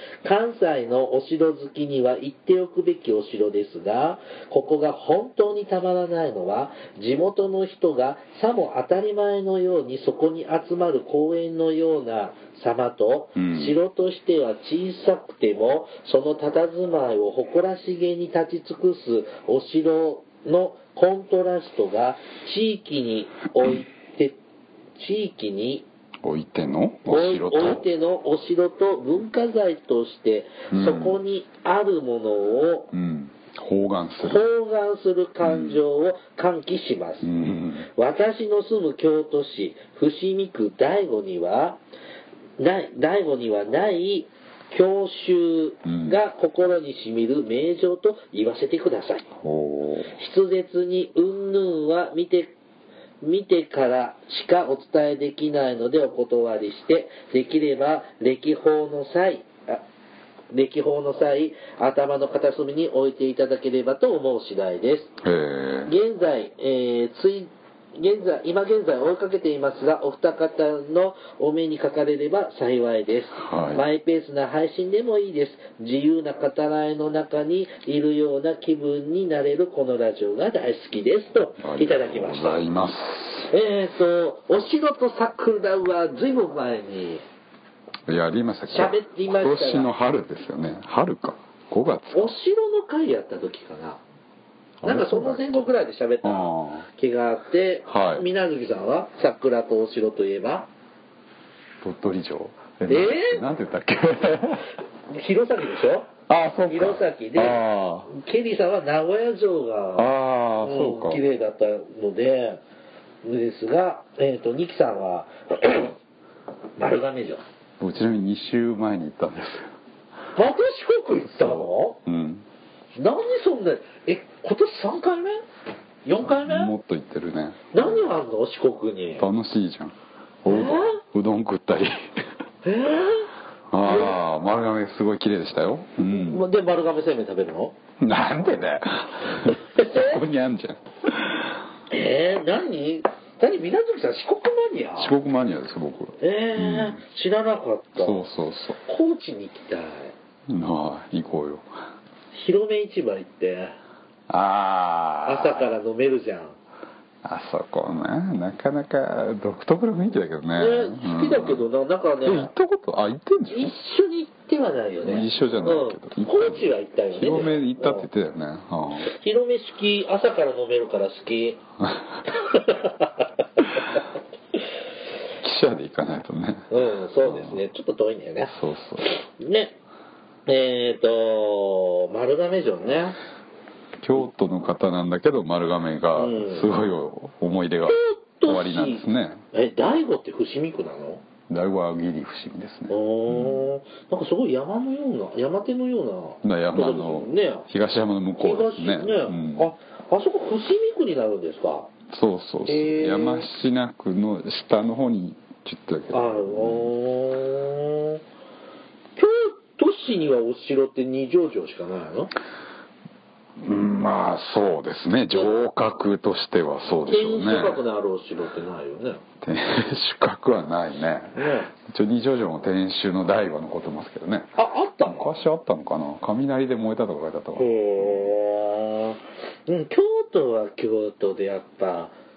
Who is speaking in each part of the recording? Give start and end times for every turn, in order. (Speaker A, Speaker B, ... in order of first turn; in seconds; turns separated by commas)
Speaker A: 0.2-24.4, Speaker B: 13.3-13.8, Speaker A: 25.0-25.8, Speaker B: 26.2-27.8, Speaker A: 27.1-32.9, Speaker B: 30.7-31.2, Speaker B: 32.9-34.4, Speaker A: 34.2-37.3, Speaker B: 35.4-35.8, Speaker B: 37.2-37.9, Speaker A: 37.9-41.8, Speaker A: 42.6-49.3, Speaker B: 45.8-46.2, Speaker B: 49.4-50.1, Speaker A: 50.1-52.5, Speaker A: 53.2-59.8, Speaker A: 60.5-65.1, Speaker B: 65.2-65.9, Speaker A: 65.8-82.7, Speaker B: 73.3-73.8, Speaker B: 81.6-83.5, Speaker A: 83.5-87.2, Speaker B: 88.1-92.3, Speaker A: 88.7-89.9, Speaker A: 92.1-94.0, Speaker B: 94.8-95.7, Speaker A: 94.8-100.7, Speaker B: 96.2-96.9, Speaker B: 97.9-98.2, Speaker B: 101.8-104.7, Speaker A: 102.9-103.4, Speaker A: 105.1-106.1, Speaker B: 106.3-108.1, Speaker A: 106.7-112.6, Speaker B: 110.0-111.2, Speaker A: 113.2-115.9, Speaker A: 116.8-117.4, Speaker B: 117.8-119.7, Speaker A: 120.3-122.0, Speaker B: 121.2-122.5, Speaker A: 123.0-125.4, Speaker A: 126.0-126.7, Speaker B: 126.3-128.1, Speaker A: 127.7-129.3, Speaker B: 129.2-132.2, Speaker A: 130.4-131.0, Speaker A: 132.6-133.3, Speaker B: 133.7-136.4, Speaker A: 133.8-134.2, Speaker A: 136.1-137.8, Speaker B: 138.0-141.6, Speaker A: 139.5-140.2, Speaker A: 141.9-145.1, Speaker B: 145.0-147.0, Speaker A: 146.2-148.2, Speaker B: 148.0-148.8, Speaker A: 148.8-150.1, Speaker B: 150.5-151.7, Speaker A: 152.3-153.8, Speaker B: 154.3-155.7, Speaker A: 155.2-156.6, Speaker B: 157.2-161.7, Speaker A: 160.6-162.5, Speaker B: 162.2-163.8, Speaker A: 163.5-168.1, Speaker B: 165.0-169.1, Speaker A: 169.0-171.6, Speaker B: 171.8-172.2, Speaker A: 172.3-174.0, Speaker B: 175.4-177.6, Speaker A: 176.7-179.8, Speaker B: 178.5-179.1, Speaker A: 180.5-183.2, Speaker B: 184.0-189.4, Speaker A: 186.2-186.7, Speaker A: 187.9-191.2, Speaker B: 191.5-193.7, Speaker A: 192.9-197.7, Speaker B: 196.4-199.7, Speaker A: 198.4-201.9, Speaker B: 202.1-206.9, Speaker A: 202.7-203.5, Speaker A: 206.1-208.2, Speaker A: 209.2-212.3, Speaker B: 213.6-217.8, Speaker A: 217.1-219.2, Speaker B: 219.4-224.5, Speaker A: 221.3-221.7, Speaker A: 224.6-225.3, Speaker B: 225.0-228.3, Speaker A: 227.6-232.1